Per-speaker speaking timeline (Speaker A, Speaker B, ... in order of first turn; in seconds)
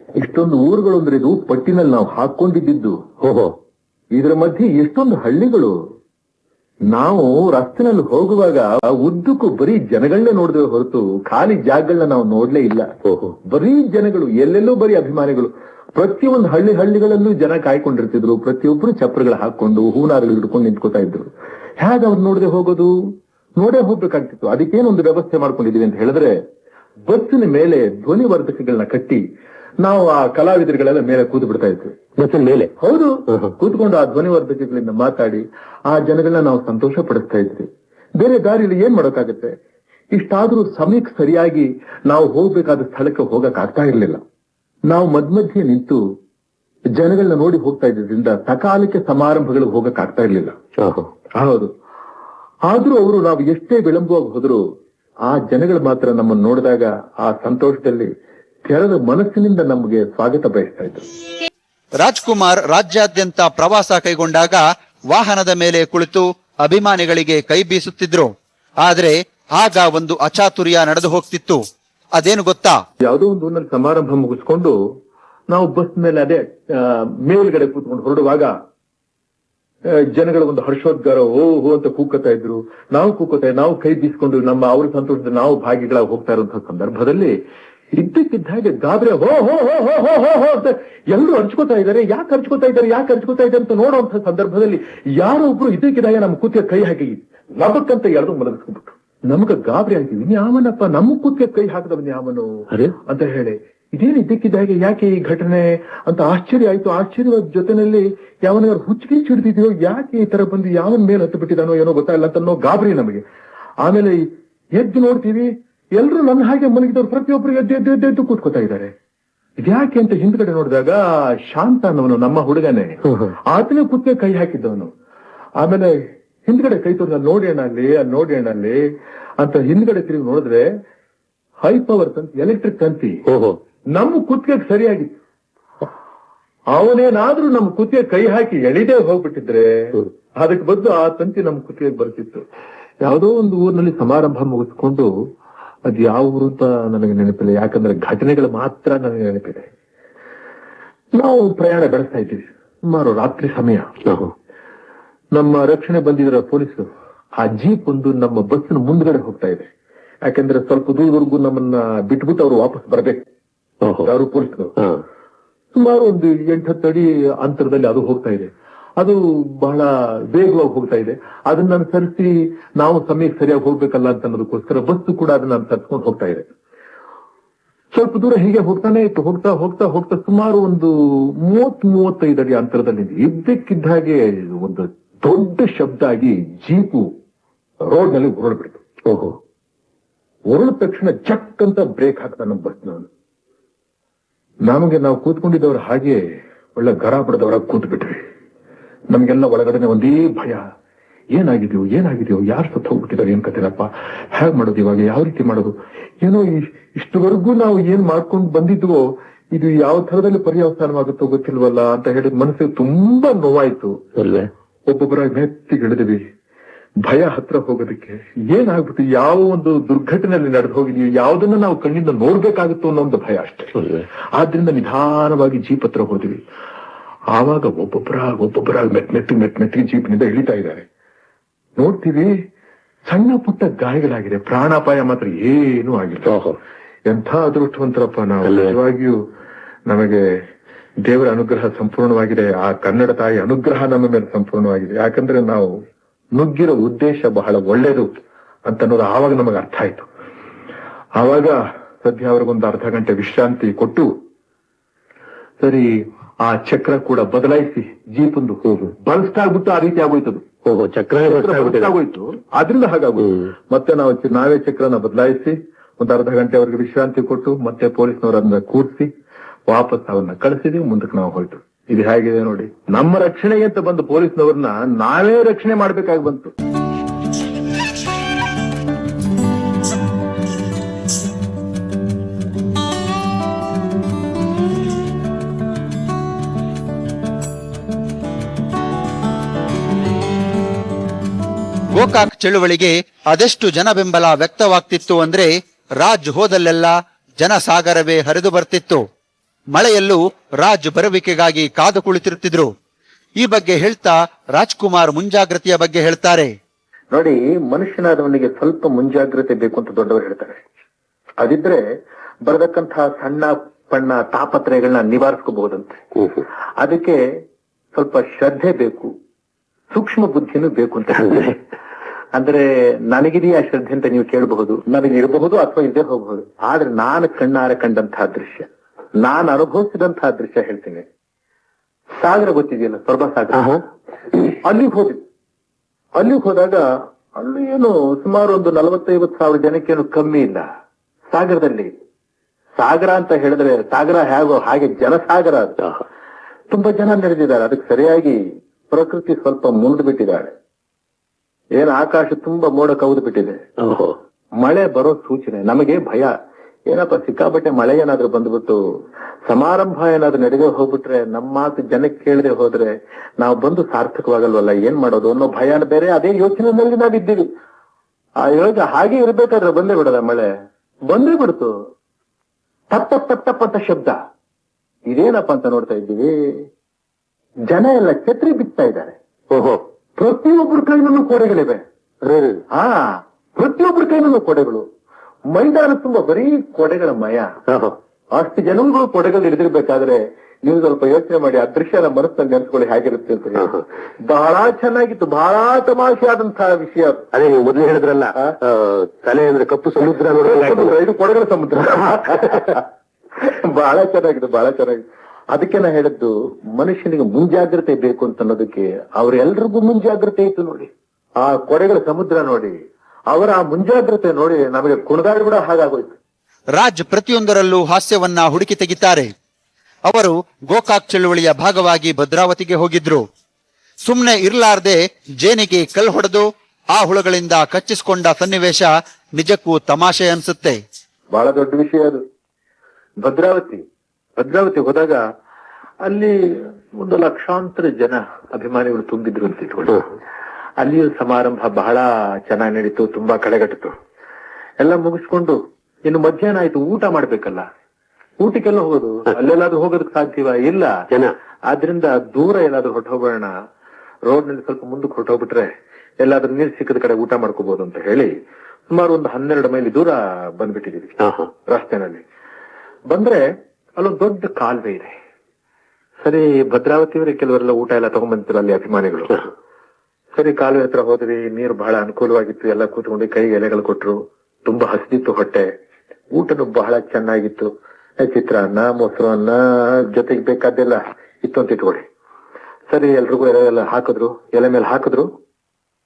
Speaker A: 0.2-3.0, 4.1-5.7, 6.9-12.8, 13.5-22.9, 23.6-26.3, 27.1-29.2, 29.8-31.9, 32.8-37.7, 38.2-39.5, 40.1-44.2, 44.9-46.0, 47.0-50.5, 51.4-51.7, 52.7-54.6, 55.2-58.1, 58.6-61.0, 73.0-74.7, 75.5-78.5, 80.1-87.3, 87.9-102.5, 103.1-113.2, 113.8-118.9, 119.6-123.0, 123.5-124.9, 125.6-125.9, 126.5-128.8, 129.4-130.7, 131.6-133.2, 133.9-135.2, 136.7-142.4, 143.0-145.1, 145.9-149.7, 151.2-153.9, 155.3-156.8, 157.4-159.7, 160.2-163.2, 164.0-164.7, 165.7-176.5, 177.9-187.1, 187.9-188.8, 190.5-193.1, 194.7-196.2, 196.7-198.2, 199.1-200.6, 201.3-214.0, 214.9-216.2, 217.0-223.7, 224.4-226.4, 227.3-230.8, 231.8-232.3, 233.1-236.4, 237.1-239.2, 239.9-240.2, 241.0-245.7, 246.3-248.1, 248.7-250.1, 251.2-254.1, 255.6-255.9, 256.4-260.4, 261.2-269.1, 269.7-276.5, 307.1-310.6, 311.4-311.8, 312.4-316.0, 316.8-317.2, 317.9-319.1, 319.9-321.6, 322.4-328.7, 329.2-331.0, 332.2-333.7, 334.5-335.2, 336.2-336.8, 337.4-340.6, 341.3-341.9, 342.8-345.8, 346.7-350.5, 351.7-353.6, 354.6-356.3, 356.9-358.8, 359.5-367.5, 368.4-370.5, 371.1-371.7, 372.9-374.1, 375.1-376.3, 377.7-379.1, 380.2-381.8, 382.7-383.0, 383.6-384.8, 385.5-387.5, 388.4-393.7, 394.3-397.2, 400.4-402.8, 403.4-410.9, 411.4-412.7, 413.3-416.2, 431.3-432.2, 433.2-433.8, 434.4-435.2, 436.0-440.1, 440.8-443.9, 444.8-447.6, 448.4-450.9, 451.7-453.5, 454.3-455.7, 456.2-458.3, 458.9-461.1, 461.7-462.2, 463.1-463.4, 464.0-465.1, 466.2-469.4, 470.3-475.7, 476.3-482.0, 482.9-485.3
Speaker B: 3.2-3.5, 13.0-13.3, 32.2-32.7, 33.3-33.5, 50.8-51.1, 123.1-123.3, 133.3-133.6, 154.1-154.3, 163.8-164.1, 189.1-189.4, 214.2-214.5, 223.8-224.0, 236.3-236.6, 238.4-238.8, 260.6-261.9, 333.5-333.8, 353.8-354.1, 379.5-379.8, 382.2-382.6, 387.7-388.0, 397.3-400.9, 461.2-461.5
Speaker C: 62.0-68.3, 68.8-71.6, 72.2-72.8, 291.9-299.0, 299.7-302.7, 303.4-306.5, 416.7-419.3, 420.1-423.2, 424.0-430.8